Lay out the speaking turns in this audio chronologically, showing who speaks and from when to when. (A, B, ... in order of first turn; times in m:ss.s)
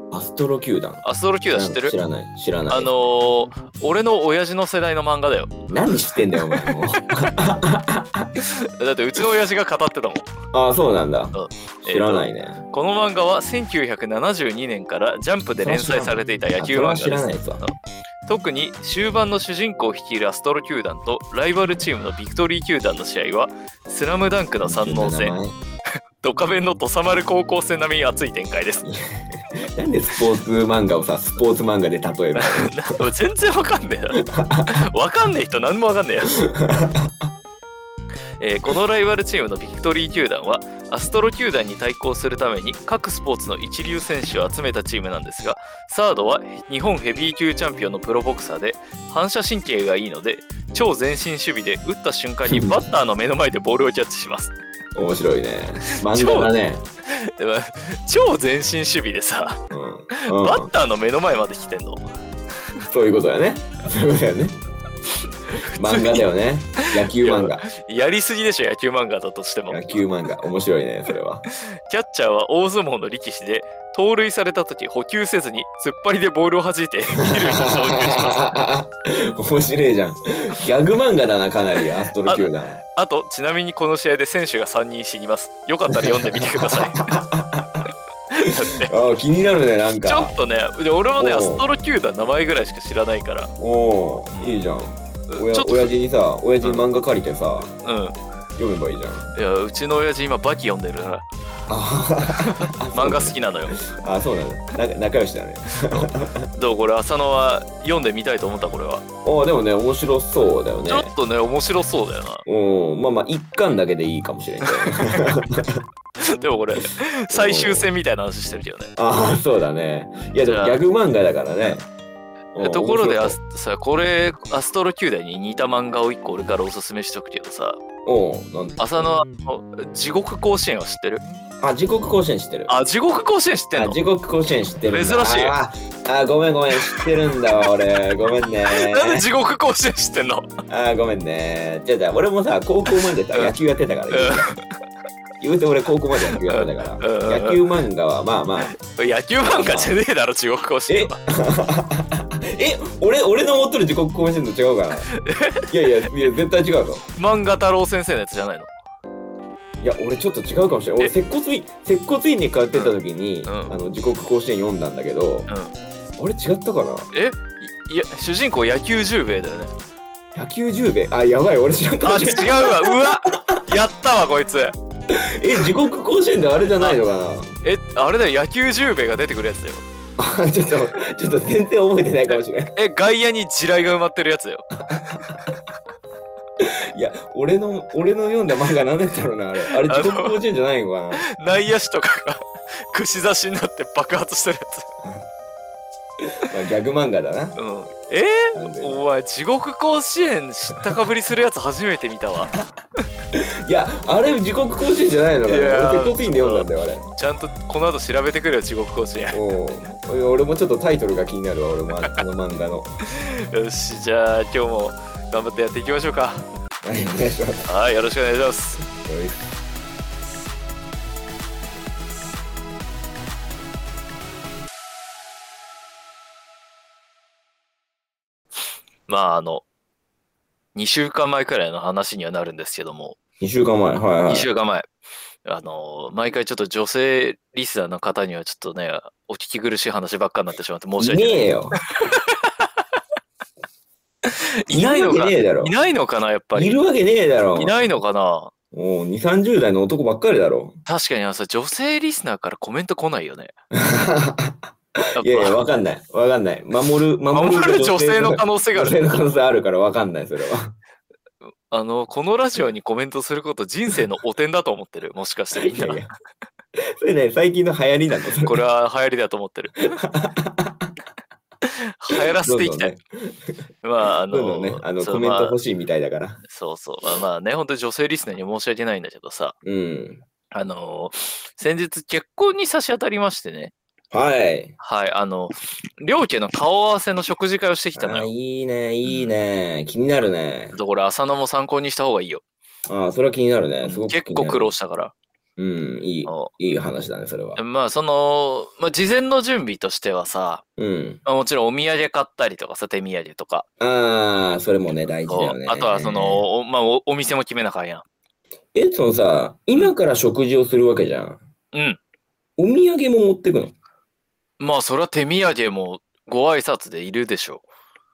0:00.1-0:02.9 A
0:01.0-0:02.0 B
0:02.7-0:05.6 B
0:05.7-0:08.3 A
0:06.5-0:06.8 B
0:08.4-0:10.3 B
0:10.5-0:12.6 A
0:11.3-0:25.4 B
0:15.6-0:17.6 A
0:24.6-0:25.6 A
0:26.2-0:28.8 B
0:28.8-0:32.8 A
0:32.4-0:36.4 B
0:34.2-0:34.8 A
0:36.4-0:37.3 A
0:38.4-0:54.5 B
0:52.5-0:52.8 A
0:55.0-0:56.8 A
0:56.0-0:56.5 B
0:57.1-0:59.6 B
0:59.7-1:00.7 A
1:00.1-1:02.0 B
1:02.9-1:04.6 A
1:05.5-1:06.3 B
1:05.8-1:07.6 A
1:06.8-1:10.0 B
1:09.7-1:11.4 A
1:11.5-1:18.6 B
1:17.2-1:22.8 A
1:22.2-1:27.0 B
1:25.9-1:27.9 A
1:28.3-1:28.9 B
1:28.4-1:30.3 A
1:30.0-1:33.5 B
1:31.2-1:31.7 A
1:33.6-1:37.7 A
1:35.3-1:35.9 B
1:37.8-1:38.2 B
1:38.6-1:39.3 A
1:39.4-1:41.3 B
1:41.7-1:46.5 A
1:42.3-1:43.8 B
1:45.9-1:49.0 B
1:49.2-1:51.1 A
1:50.9-1:52.4 B
1:52.4-1:55.8 A
1:54.7-1:55.4 B
1:56.2-1:58.9 B
1:57.3-1:57.9 A
1:59.0-2:01.8 A
2:00.5-2:00.8 B
2:02.5-2:03.4 A
2:02.6-2:07.8 B
2:08.0-2:09.1 A
2:08.8-2:11.2 B
2:11.6-2:12.7 A
2:12.7-2:14.0 B
2:13.7-2:19.3 A
2:14.9-2:15.6 B
2:18.7-2:20.5 B
2:20.7-2:24.6 A
2:24.1-2:24.6 B
2:25.4-2:28.8 A
2:26.3-2:27.6 B
2:28.8-2:31.2 B
2:29.4-2:30.0 A
2:30.9-2:35.1 A
2:35.1-2:36.3 B
2:35.7-2:37.0 A
2:37.2-2:38.7 B
2:39.8-2:45.5 A
2:43.5-2:43.8 B
2:46.2-2:47.1 A
2:47.1-2:49.7 B
2:50.3-2:53.6 A
2:52.0-2:54.8 B
2:55.1-2:57.5 A
2:57.6-2:59.8 B
3:00.2-3:02.7 A
3:02.8-3:04.7 B
3:04.8-3:05.6 A
3:06.6-3:11.2 A
3:09.7-3:10.4 B
3:11.2-3:14.9 B
3:16.4-3:17.6 A
3:17.6-3:22.5 B
3:18.6-3:19.0 A
3:23.3-3:27.1 A
3:25.5-3:29.4 B
3:29.3-3:32.9 A
3:33.1-3:36.5 B
3:36.8-3:37.7 A
3:37.6-3:38.8 B
3:38.9-3:39.4 A
3:49.1-3:49.6 B
3:50.8-3:53.2 B
3:53.4-3:54.5 A
3:54.3-3:54.9 B
3:55.5-4:02.4 B
4:01.0-4:01.8 A
4:04.3-4:06.8 B
4:04.7-4:05.7 A
4:06.5-4:07.8 A
4:07.6-4:08.5 B
4:08.7-4:10.8 A
4:10.9-4:13.5 B
4:13.7-4:20.8 A
4:15.2-4:15.6 B
4:17.3-4:19.2 B
4:21.7-4:26.0 B
4:25.6-4:26.1 A
4:26.8-4:28.6 A
4:28.4-4:30.0 B
4:30.0-4:30.9 A
4:31.6-4:32.9 B
4:32.2-4:33.6 A
4:33.8-4:35.6 B
4:34.3-4:36.4 A
4:36.5-4:39.6 B
4:39.6-4:40.2 A
4:40.5-4:43.7 B
4:44.1-4:44.8 A
4:44.8-4:48.3 B
4:48.0-4:50.8 A
4:50.7-4:52.4 B
4:52.9-4:54.7 A
4:53.8-4:55.1 B
4:55.6-4:57.6 A
4:56.3-4:56.5 B
4:57.6-5:00.6 B
5:00.8-5:01.2 A
5:01.2-5:03.7 B
5:03.8-5:06.4 A
5:05.3-5:08.0 B
5:08.7-5:11.4 A
5:11.7-5:12.0 B
5:12.6-5:13.7 A
5:14.6-5:17.6 B